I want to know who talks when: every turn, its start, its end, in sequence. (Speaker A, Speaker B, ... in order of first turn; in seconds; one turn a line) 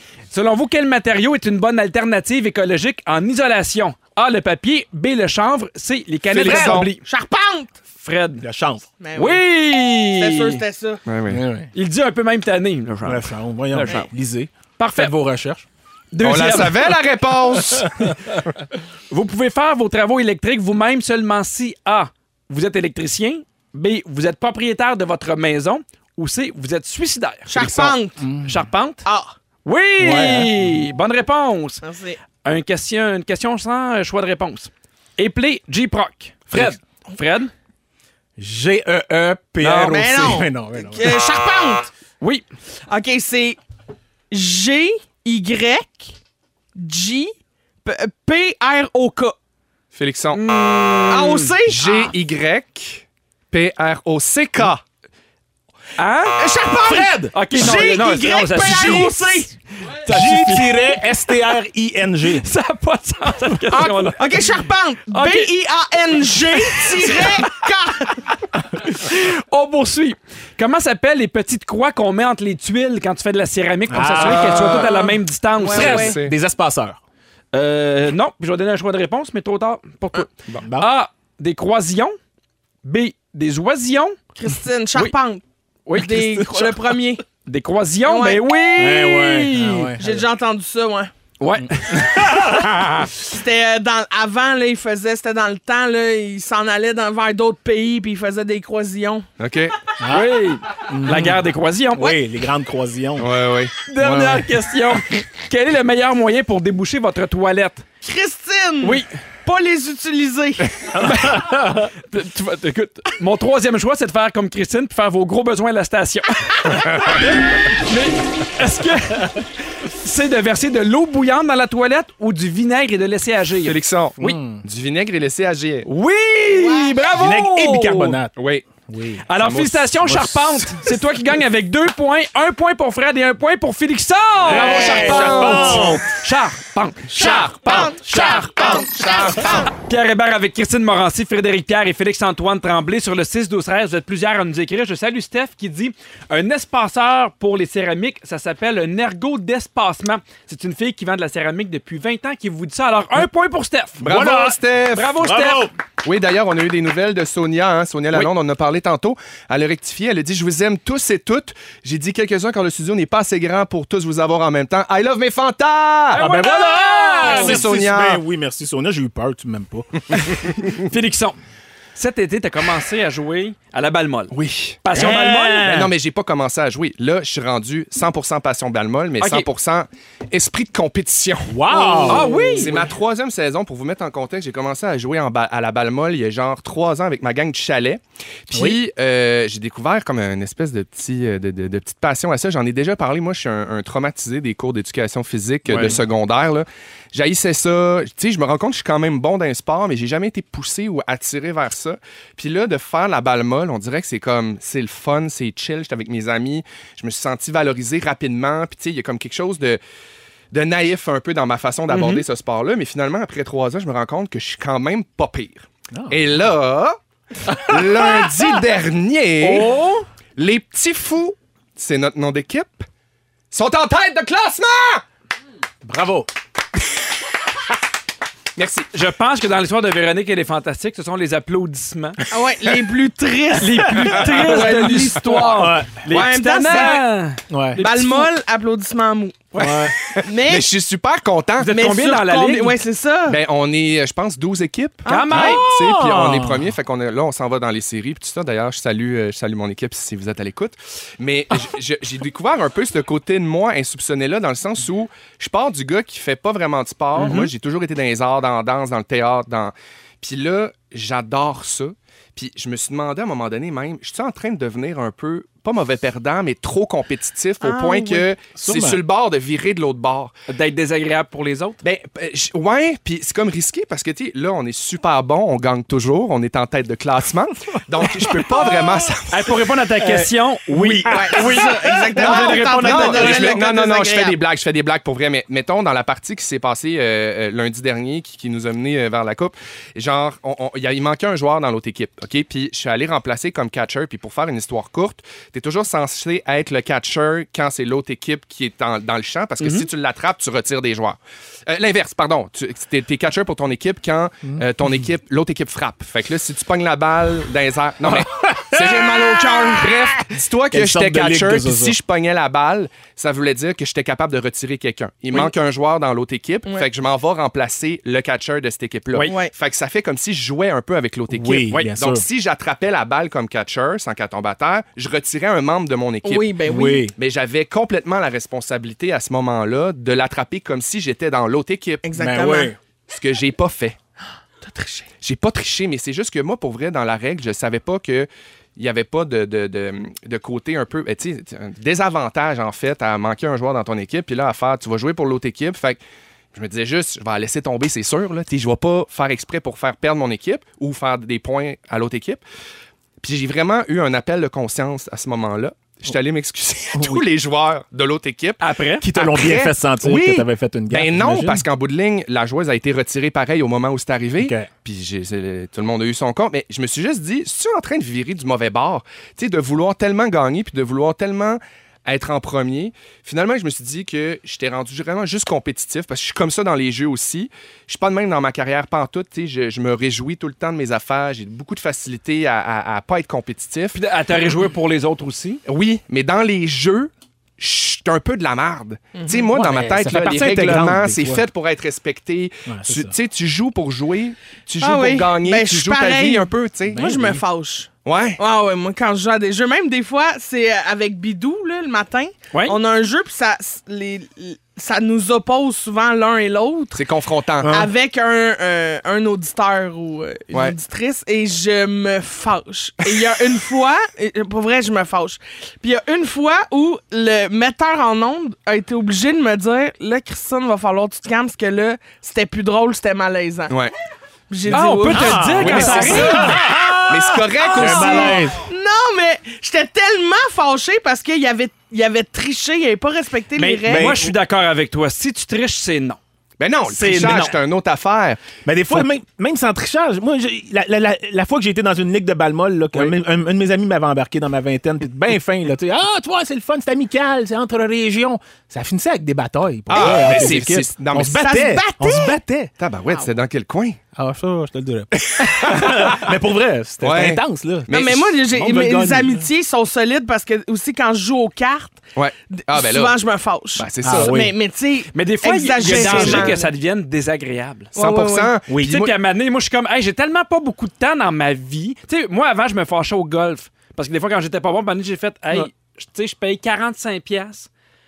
Speaker A: 0.3-7.0
Speaker B: 6.3-6.9
Speaker C: 6.4-7.8
Speaker A: 8.0-8.4
Speaker D: 8.4-8.8
Speaker C: 9.0-9.4
Speaker A: 9.2-10.6
Speaker C: 10.1-11.0
Speaker B: 11.1-11.4
Speaker D: 11.3-11.7
Speaker A: 11.7-14.1
Speaker D: 13.0-15.7
Speaker A: 14.8-15.1
Speaker A: 16.1-16.9
Speaker B: 16.2-18.5
Speaker D: 17.7-18.3
Speaker A: 19.1-29.1
Speaker C: 27.5-28.2
Speaker D: 28.2-28.6
Speaker C: 29.0-29.3
Speaker A: 29.6-31.8
Speaker D: 30.0-30.5
Speaker C: 31.8-32.2
Speaker A: 32.4-37.5
Speaker D: 38.4-41.2
Speaker A: 39.6-40.1
Speaker C: 39.8-41.9
Speaker C: 42.9-43.6
Speaker C: 44.3-46.1
Speaker C: 46.8-49.3
Speaker B: 49.9-50.4
Speaker A: 50.3-51.5
Speaker C: 51.1-52.1
Speaker B: 51.6-54.8
Speaker A: 56.0-56.4
Speaker C: 56.4-59.5
Speaker D: 56.8-57.3
Speaker A: 57.3-61.0
Speaker D: 58.6-59.4
Speaker D: 60.0-62.5
Speaker A: 62.4-64.4
Speaker C: 63.7-68.3
Speaker A: 65.1-65.5
Speaker A: 66.5-67.5
Speaker A: 68.7-76.1
Speaker D: 73.9-74.9
Speaker B: 74.2-74.9
Speaker C: 74.7-76.2
Speaker B: 75.7-76.3
Speaker D: 75.7-77.0
Speaker A: 77.5-82.2
Speaker D: 80.6-80.9
Speaker A: 82.8-84.2
Speaker C: 84.4-85.4
Speaker A: 85.8-86.4
Speaker C: 85.9-87.2
Speaker D: 86.0-86.8
Speaker A: 87.4-89.9
Speaker C: 88.0-88.5
Speaker D: 88.8-90.2
Speaker C: 90.0-91.1
Speaker A: 91.4-93.1
Speaker D: 91.6-92.8
Speaker C: 93.1-99.2
Speaker B: 99.4-99.8
Speaker D: 100.0-103.4
Speaker A: 100.1-102.2
Speaker B: 103.2-103.7
Speaker A: 103.9-107.8
Speaker D: 104.0-104.6
Speaker C: 108.0-110.7
Speaker A: 108.8-109.1
Speaker D: 111.0-111.9
Speaker A: 111.0-116.8
Speaker B: 116.7-117.2
Speaker A: 117.7-124.4
Speaker B: 123.6-125.9
Speaker D: 124.2-124.6
Speaker A: 125.8-128.2
Speaker C: 126.5-127.0
Speaker D: 127.1-129.2
Speaker B: 128.4-128.7
Speaker A: 129.3-154.2
Speaker B: 129.4-130.8
Speaker D: 134.4-136.1
Speaker B: 134.5-135.9
Speaker C: 134.7-135.3
Speaker C: 137.1-139.7
Speaker B: 154.0-155.2
Speaker D: 154.0-154.6
Speaker A: 154.9-155.7
Speaker D: 155.1-155.7
Speaker B: 156.0-166.2
Speaker A: 166.1-167.6
Speaker D: 166.1-170.0
Speaker B: 167.2-168.2
Speaker A: 170.1-171.4
Speaker A: 171.9-174.3
Speaker B: 174.3-174.8
Speaker A: 174.8-175.7
Speaker D: 174.9-175.9
Speaker B: 175.6-209.8
Speaker A: 179.2-179.5
Speaker D: 181.5-182.8
Speaker A: 182.1-182.7
Speaker D: 188.5-188.8
Speaker A: 195.7-195.9
Speaker B: 210.5-219.7
Speaker A: 211.9-212.2
Speaker D: 215.9-216.2
Speaker A: 219.4-220.0
Speaker B: 220.4-222.9
Speaker B: 223.5-225.0
Speaker D: 225.8-226.3
Speaker B: 228.6-228.9
Speaker A: 228.9-232.2
Speaker C: 232.3-237.1
Speaker A: 233.6-238.3
Speaker D: 234.3-236.1
Speaker B: 236.1-236.9
Speaker D: 237.5-237.8
Speaker C: 237.8-239.5
Speaker A: 239.5-239.9
Speaker D: 239.6-239.9
Speaker B: 240.0-241.7
Speaker C: 240.2-240.7
Speaker A: 241.6-242.8
Speaker C: 241.6-243.4
Speaker B: 243.3-270.3
Speaker C: 245.0-245.6
Speaker A: 245.1-245.6
Speaker D: 245.3-246.7
Speaker A: 257.1-257.5
Speaker C: 267.6-268.3
Speaker D: 268.5-269.0
Speaker A: 270.5-271.8
Speaker B: 271.8-279.6
Speaker D: 278.0-278.9
Speaker A: 279.3-283.4
Speaker D: 280.0-283.6
Speaker C: 281.1-284.4
Speaker B: 282.1-326.6
Speaker A: 299.6-299.9
Speaker D: 304.5-305.0
Speaker D: 308.0-309.3
Speaker C: 308.8-309.9
Speaker D: 310.1-312.0
Speaker C: 319.2-319.5
Speaker D: 321.3-322.2
Speaker C: 326.2-327.1
Speaker D: 326.6-327.1
Speaker B: 327.1-332.0
Speaker C: 332.0-332.7
Speaker D: 332.2-332.8
Speaker B: 333.1-334.0
Speaker C: 334.6-335.1
Speaker B: 335.2-346.0
Speaker B: 346.5-352.4
Speaker B: 353.2-358.6
Speaker D: 356.9-357.2
Speaker A: 358.6-359.1
Speaker D: 359.0-361.6
Speaker B: 359.1-384.0
Speaker D: 364.4-364.7
Speaker A: 383.9-385.6
Speaker B: 385.6-397.2
Speaker C: 389.1-389.4
Speaker D: 389.5-391.4
Speaker D: 392.7-393.1
Speaker C: 394.8-407.0
Speaker D: 396.9-397.4
Speaker B: 398.0-398.4
Speaker A: 402.5-402.8
Speaker B: 406.9-407.8
Speaker D: 407.6-407.9
Speaker C: 407.7-423.7
Speaker B: 410.5-410.8
Speaker C: 424.5-427.0
Speaker A: 424.7-426.6
Speaker D: 425.1-428.6
Speaker B: 425.6-426.5
Speaker B: 427.1-428.4
Speaker C: 427.6-434.2
Speaker A: 433.6-436.2
Speaker D: 433.9-434.3
Speaker B: 436.6-438.4
Speaker A: 436.9-437.6
Speaker D: 438.6-452.7
Speaker B: 449.9-451.4
Speaker C: 450.0-450.3
Speaker C: 451.4-452.3
Speaker B: 452.8-454.0
Speaker D: 454.1-459.5
Speaker B: 455.1-456.3
Speaker B: 457.0-458.3
Speaker C: 457.9-462.0
Speaker B: 462.1-463.1
Speaker C: 462.7-466.7
Speaker B: 463.7-464.4
Speaker D: 464.0-464.5
Speaker A: 465.1-467.9
Speaker D: 465.8-466.5
Speaker C: 467.9-468.5
Speaker B: 467.9-469.1
Speaker D: 468.7-469.0
Speaker A: 468.8-477.7